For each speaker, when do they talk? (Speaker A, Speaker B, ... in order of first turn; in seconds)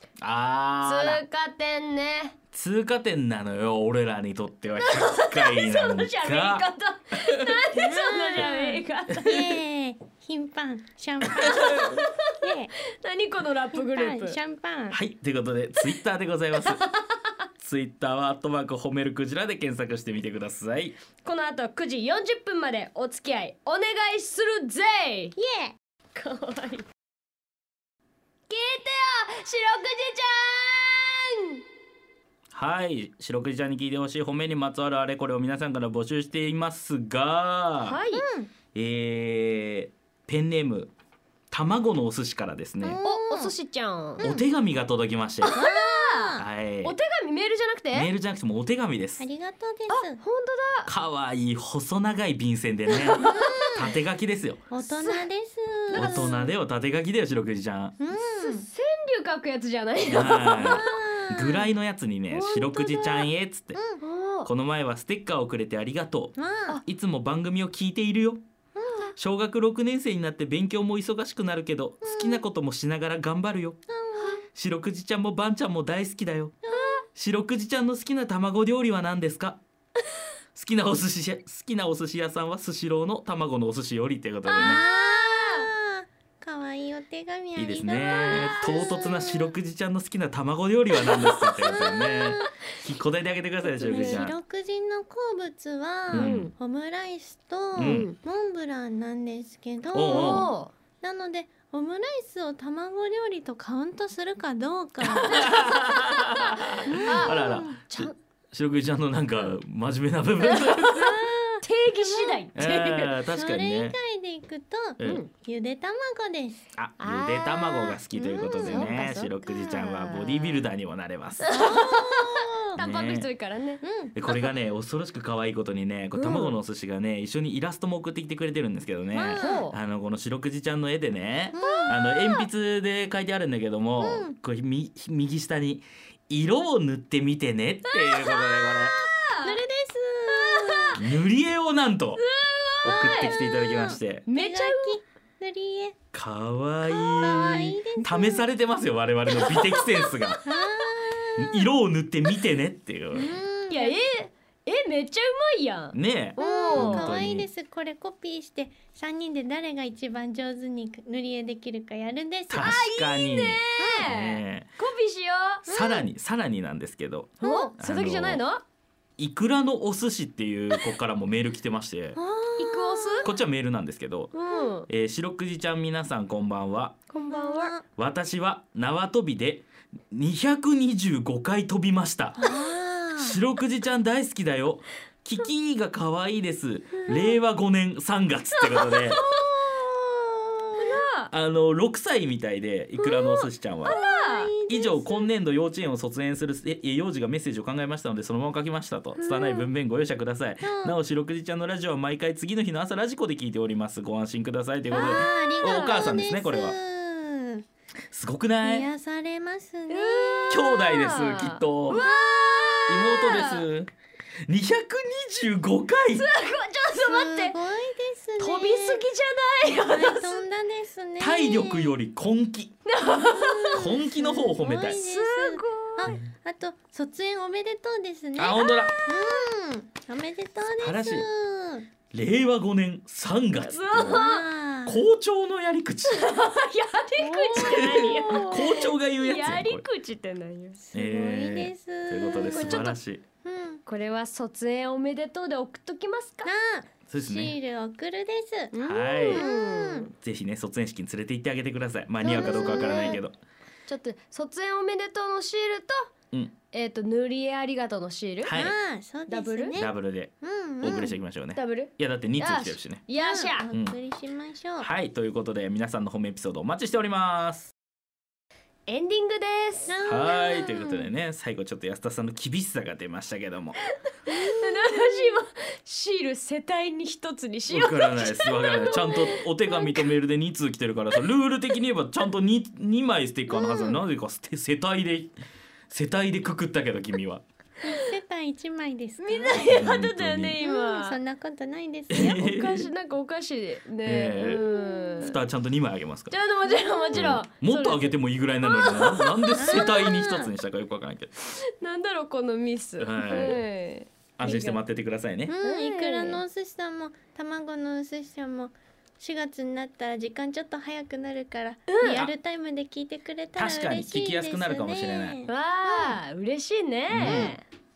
Speaker A: 0.2-1.2, 2.5-6.7, 11.7-11.9, 14.9-16.8, 17.6-20.9, 32.5-38.0, 38.7-40.9, 41.5-43.0, 44.2-45.5, 46.4-47.0, 47.9-49.2, 50.9-54.6, 55.9-58.0, 60.1-63.8, 64.4-68.4, 69.2-73.8, 74.5-76.6, 77.1-79.6, 80.5-84.8, 87.5-94.4, 96.1-96.5, 97.8-98.1, 99.9-100.5, 105.1-111.1, 112.5-114.0, 116.8-121.8, 122.8-123.3, 124.1-139.0, 140.9-142.2, 142.8-144.2, 146.1-150.4, 151.4-153.4, 155.9-157.5, 162.5-164.7, 165.7-168.4, 169.2-172.2, 173.2-174.3, 174.9-176.9, 177.9-182.4, 183.2-189.2, 191.3-194.0, 194.7-206.8, 208.1-208.9, 210.5-212.0, 212.9-213.9, 214.5-216.3, 221.2-222.8, 223.7-225.0, 228.3-229.0, 230.7-231.3, 232.1-234.2, 234.8-236.3, 237.6-239.8, 240.9-243.2, 247.1-247.6, 248.8-249.5, 250.2-253.3, 258.4-258.7, 259.8-263.0, 263.7-263.9, 264.8-267.7, 270.0-273.8, 277.7-285.3, 285.9-287.4, 289.6-290.6, 292.1-292.9, 294.0-294.6, 295.2-296.4, 297.1-301.5, 303.0-303.6, 304.4-305.5, 312.1-312.3, 313.6-315.4, 317.1-317.6
Speaker B: 0.8-2.4, 4.8-9.6, 11.6-12.3, 12.9-14.4, 16.6-17.1, 21.2-25.4, 26.1-26.9, 28.5-31.6, 37.8-38.2, 43.0-44.2, 45.4-48.1, 49.9-50.9, 52.9-53.8, 54.8-55.2, 55.9-56.5, 58.4-60.9, 62.3-63.3, 64.0-64.5, 76.7-77.0, 84.5-85.7, 91.2-91.9, 93.7-94.2, 96.1-96.5, 97.8-98.2, 100.1-100.7, 106.6-108.1, 110.4-113.2, 115.0-115.3, 117.0-118.0, 118.6-120.7, 121.4-123.8, 126.1-126.5, 129.4-129.8, 131.6-132.5, 137.9-139.6, 140.3-141.0, 142.2-143.7, 144.3-145.0, 147.2-147.7, 149.3-150.6, 153.7-157.2, 162.6-165.7, 167.4-168.6, 172.6-173.3, 174.3-174.9, 177.1-177.7, 188.7-189.5, 190.8-191.3, 193.0-194.5, 199.2-199.6, 205.3-206.0, 209.9-213.7, 216.1-217.6, 218.4-220.4, 222.8-224.0, 224.8-226.2, 228.6-229.4, 233.6-234.4, 236.1-240.8, 242.5-243.0, 243.8-246.5, 248.7-250.1, 252.2-253.2, 253.9-256.1, 256.7-258.6, 259.3-259.8, 260.8-263.7, 268.9-270.0, 274.4-280.1, 289.2-291.2, 292.3-295.4, 296.3-300.1, 301.8-304.8, 305.6-306.4, 311.9-312.2, 315.4-317.6
Speaker C: 7.7-12.7, 13.7-15.0, 25.4-25.7, 38.1-38.5, 42.8-43.5, 44.2-44.5, 45.5-46.5, 49.2-50.2, 53.2-53.9, 54.7-56.4, 58.0-58.6, 60.6-61.6, 63.7-64.0, 66.4-66.8, 68.7-69.1, 72.0-72.4, 73.9-74.4, 76.6-77.0, 84.5-89.5, 91.6-92.5, 93.8-105.6, 106.8-107.8, 111.0-111.5, 112.0-112.4, 113.3-116.6, 118.1-119.9, 121.5-122.5, 123.8-124.5, 129.1-129.7, 131.5-132.0, 134.0-134.3, 139.4-141.0, 143.6-145.9, 146.9-148.5, 150.4-151.4, 153.1-154.0, 156.4-162.8, 163.8-164.1, 165.7-166.1, 167.4-167.7, 172.2-173.3, 177.3-177.8, 182.4-183.4, 189.6-191.0, 193.8-195.3, 200.6-200.9, 204.9-207.6, 208.6-210.6, 211.9-212.8, 216.9-219.0, 219.8-221.9, 223.1-231.9, 234.1-235.0, 237.2-238.8, 240.8-242.8, 243.4-243.8, 246.4-250.1, 252.3-253.2, 258.5-261.1, 263.1-264.9, 269.9-271.1, 274.3-275.4, 283.5-284.0, 287.8-289.8, 290.6-292.4, 294.4-295.4, 296.7-297.4, 299.6-300.5, 305.5-316.2